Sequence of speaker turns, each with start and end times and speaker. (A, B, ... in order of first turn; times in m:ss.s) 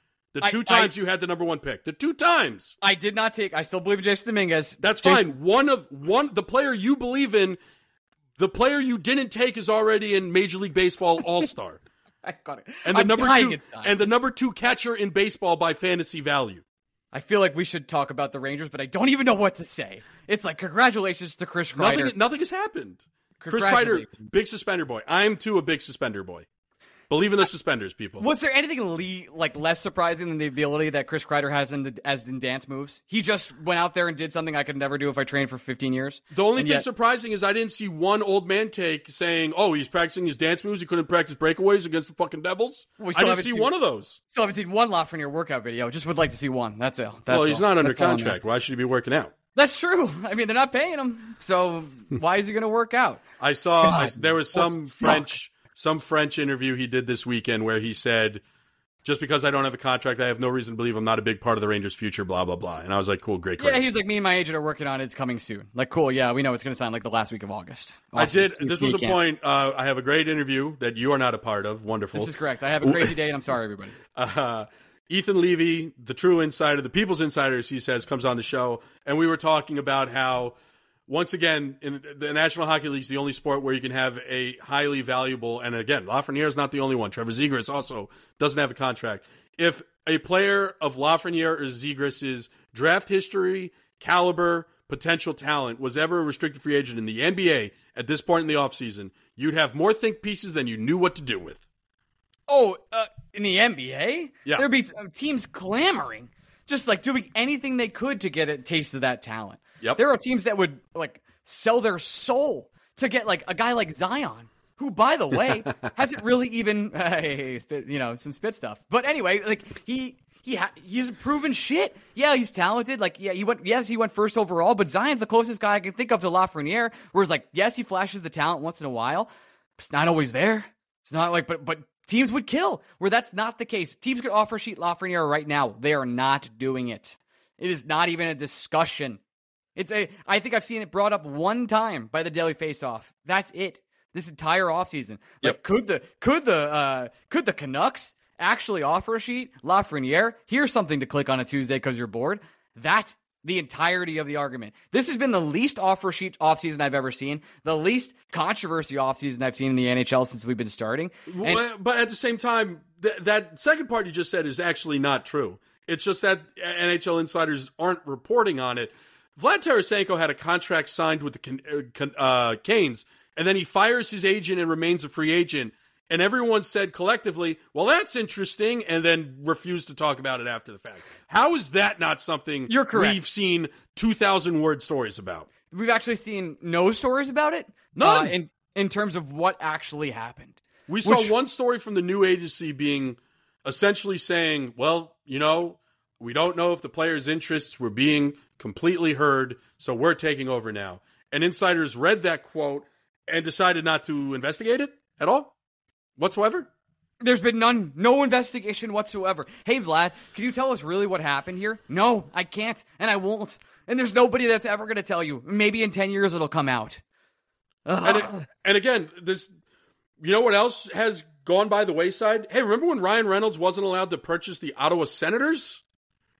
0:00.3-0:02.7 A
0:00.4-0:00.9 B
0:02.8-0:05.3 B
0:04.8-0:07.6 A
0:08.4-0:11.8 A
0:12.2-0:14.1 B
0:12.8-0:16.6 A
0:17.1-0:22.1 B
0:21.8-0:26.4 A
0:23.4-0:24.1 B
0:27.1-0:28.2 A
0:28.2-0:36.8 B
0:36.3-0:44.2 A
0:43.0-0:43.7 B
0:44.3-0:48.4 B
0:47.3-0:49.3 A
0:49.5-0:53.2 B
0:53.4-0:58.4 A
0:53.8-0:55.3 B
0:59.0-1:03.8 A
1:03.6-1:09.2 B
1:08.2-1:13.1 A
1:12.1-1:14.0 B
1:14.1-1:20.5 A
1:21.1-1:41.6 A
1:42.5-2:19.2 B
2:19.8-2:41.6 B
2:41.3-3:05.5 A
3:02.7-3:03.2 B
3:05.7-3:11.3 B
3:07.9-3:08.3 A
3:10.9-3:25.5 A
3:26.2-3:26.7 A
3:27.2-3:37.0 B
3:37.8-3:38.4 B
3:38.0-3:39.5 A
3:40.2-3:45.8 A